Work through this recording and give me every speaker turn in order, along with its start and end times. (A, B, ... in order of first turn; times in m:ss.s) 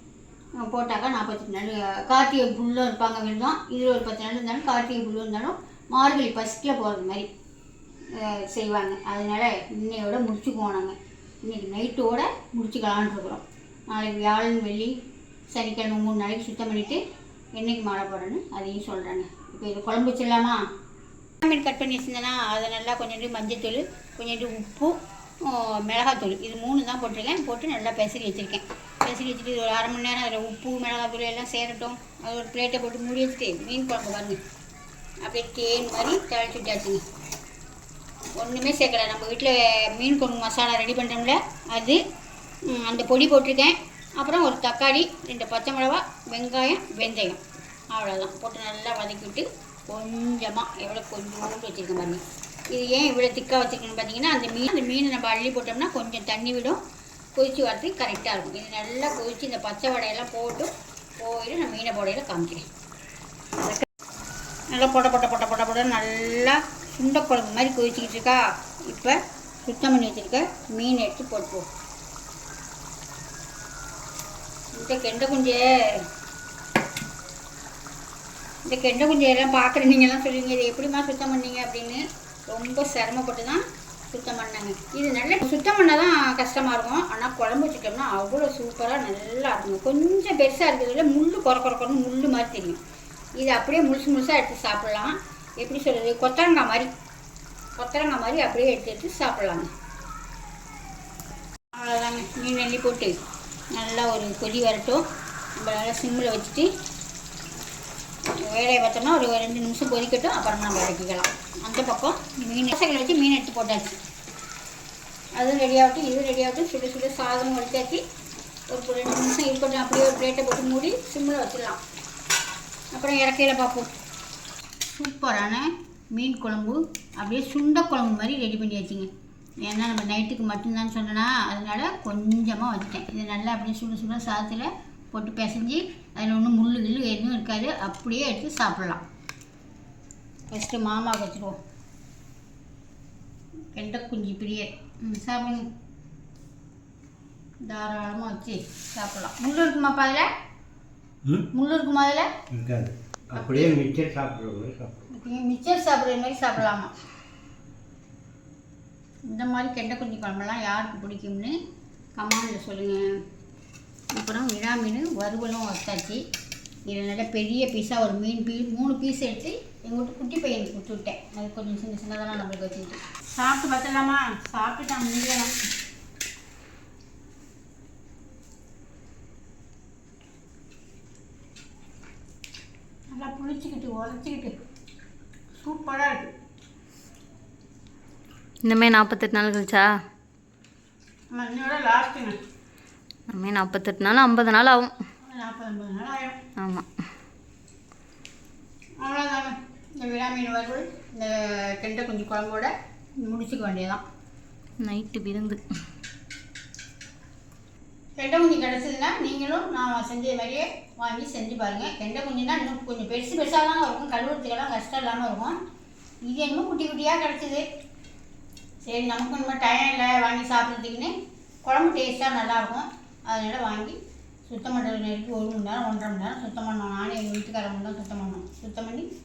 0:00.6-0:07.3 A
0:08.1-0:14.9 A
0:15.5-0:17.0 A
0:17.6-0:20.6 A
0:21.4-0:34.4 A
0:35.2-0:37.0 A
0:38.4-0:42.0 A
0:42.7-0:47.4 A
0:47.9-0:56.8 A
0:57.4-1:02.7 A
1:04.7-1:11.7 A
1:14.8-1:16.1 A
1:18.7-1:32.8 A
1:33.4-1:36.9 A
1:37.8-1:39.7 A
1:41.7-1:43.2 A
1:43.8-1:45.0 A
1:45.6-1:46.7 A
1:48.4-1:54.0 A
1:55.4-1:58.0 A
1:58.7-2:01.8 A
2:02.9-2:03.9 A
2:04.9-2:09.1 A
2:09.6-2:19.0 A
2:20.5-2:21.6 A
2:23.7-2:25.7 A
2:27.6-2:30.3 A
2:31.5-2:32.3 A
2:32.5-2:35.0 B
2:33.4-2:33.8 A
2:35.1-2:36.9 A
2:39.3-2:41.6 A
2:42.2-2:43.1 A
2:44.1-2:46.2 A
2:46.9-2:55.5 A
3:03.1-3:04.6 A
3:05.6-3:06.3 A
3:08.6-3:09.9 C
3:11.3-3:12.4 A
3:13.3-3:14.9 C
3:15.2-3:16.4 A
3:16.6-3:16.9 C
3:19.0-3:22.7 A
3:23.2-3:24.0 A
3:24.8-3:25.6 C
3:28.2-3:35.6 A
3:36.2-3:37.6 A
3:38.8-3:41.1 A
3:41.6-3:49.1 A